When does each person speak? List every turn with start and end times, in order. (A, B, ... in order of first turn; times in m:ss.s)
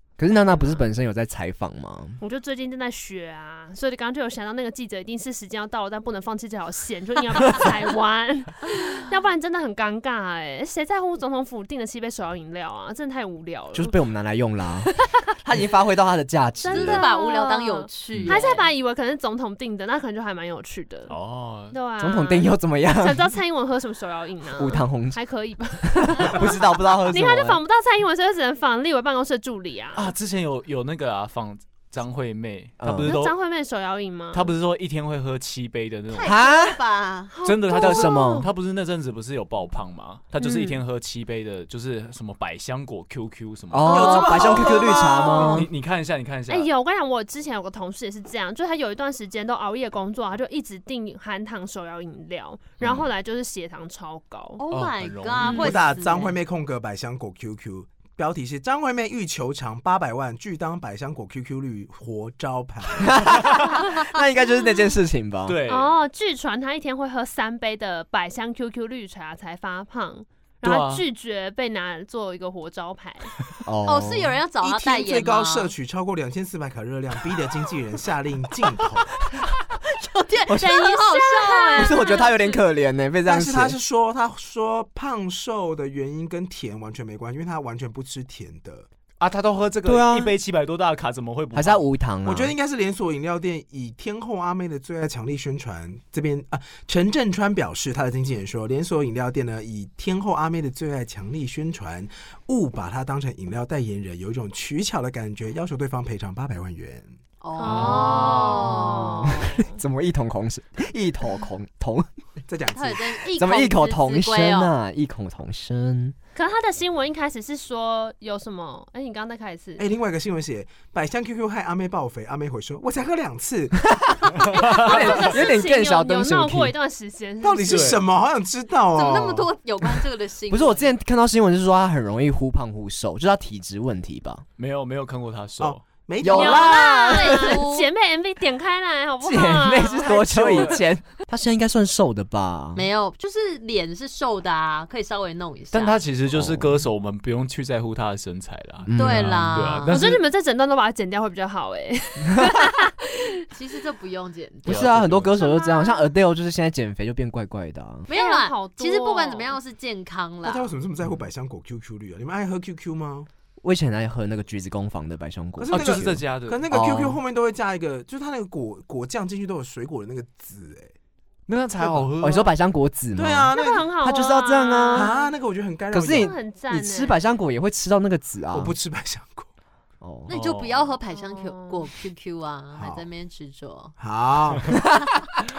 0:00.2-0:02.2 A
0:00.5-0:00.8 B
0:02.2-0:14.0 B
0:13.7-0:17.1 A
0:14.9-0:15.3 B
0:16.6-0:21.1 B
0:16.6-0:18.7 C
0:18.1-0:18.4 D
0:21.1-0:21.8 D
0:21.7-0:30.1 B
0:22.0-0:23.3 A
0:24.6-0:25.2 A
0:25.8-0:27.6 A
0:29.9-0:33.3 D
0:32.8-0:33.1 A
0:33.0-0:34.5 B
0:34.3-0:36.4 D
0:36.1-0:37.3 C
0:36.2-0:36.8 A
0:37.3-0:38.5 B
0:37.4-0:46.7 D
0:37.7-0:38.5 A
0:40.4-0:40.8 B
0:43.7-0:45.7 A
0:43.9-0:45.7 B
0:43.9-0:45.0 E
0:46.5-0:54.6 B
0:52.8-0:53.1 D
0:54.6-0:56.4 C
0:54.7-0:55.8 D
0:55.4-1:03.3 E
1:03.0-1:05.6 A
1:05.4-1:06.0 D
1:05.6-1:13.3 B
1:10.6-1:11.0 D
1:13.6-1:14.4 A
1:13.8-1:15.7 C
1:14.6-1:19.1 E
1:20.0-1:22.6 C
1:20.5-1:21.0 A
1:20.6-1:22.3 B
1:21.7-1:23.8 A
1:23.2-1:28.8 E
1:29.2-1:31.8 D
1:29.8-1:30.4 A
1:31.5-1:32.5 A
1:32.2-1:47.1 E
1:47.4-1:49.4 C
1:47.6-1:49.8 B
1:47.7-1:48.8 D
1:48.8-1:52.1 A
1:52.5-1:53.2 E
1:52.7-1:54.7 C
1:53.4-1:56.1 A
1:56.3-1:59.8 B
1:59.8-2:04.5 E
2:04.0-2:06.7 A
2:04.5-2:08.0 B
2:04.6-2:05.2 D
2:07.4-2:09.5 E
2:07.6-2:08.0 D
2:08.9-2:10.9 C
2:10.5-2:14.4 A
2:14.6-2:15.8 D
2:15.6-2:16.8 E
2:16.2-2:17.6 A
2:16.3-2:20.8 B
2:16.4-2:17.9 C
2:19.2-2:22.8 A
2:20.0-2:20.8 D
2:22.7-2:26.0 C
2:25.7-2:30.2 D
2:26.3-2:26.8 A
2:28.8-2:29.5 A
2:29.0-2:30.0 C
2:29.9-2:33.4 B
2:33.5-2:35.0 C
2:34.6-2:35.4 D
2:34.6-2:38.0 A
2:35.3-2:36.1 B
2:38.1-2:40.7 C
2:38.1-2:39.6 B
2:40.4-2:43.3 E
2:43.6-2:47.2 A
2:45.6-2:50.9 E
2:45.7-2:46.6 D
2:51.5-2:52.5 D
2:51.8-2:52.1 E
2:52.2-2:55.1 A
2:53.2-2:53.9 E
2:53.5-2:55.3 B
2:54.9-2:56.4 E
2:55.9-2:58.7 A
2:56.1-2:57.2 B
2:58.5-2:59.5 E
3:00.0-3:00.3 A
3:00.3-3:03.9 C
3:00.3-3:00.9 D
3:01.2-3:01.8 B
3:02.7-3:03.0 E
3:04.0-3:04.9 E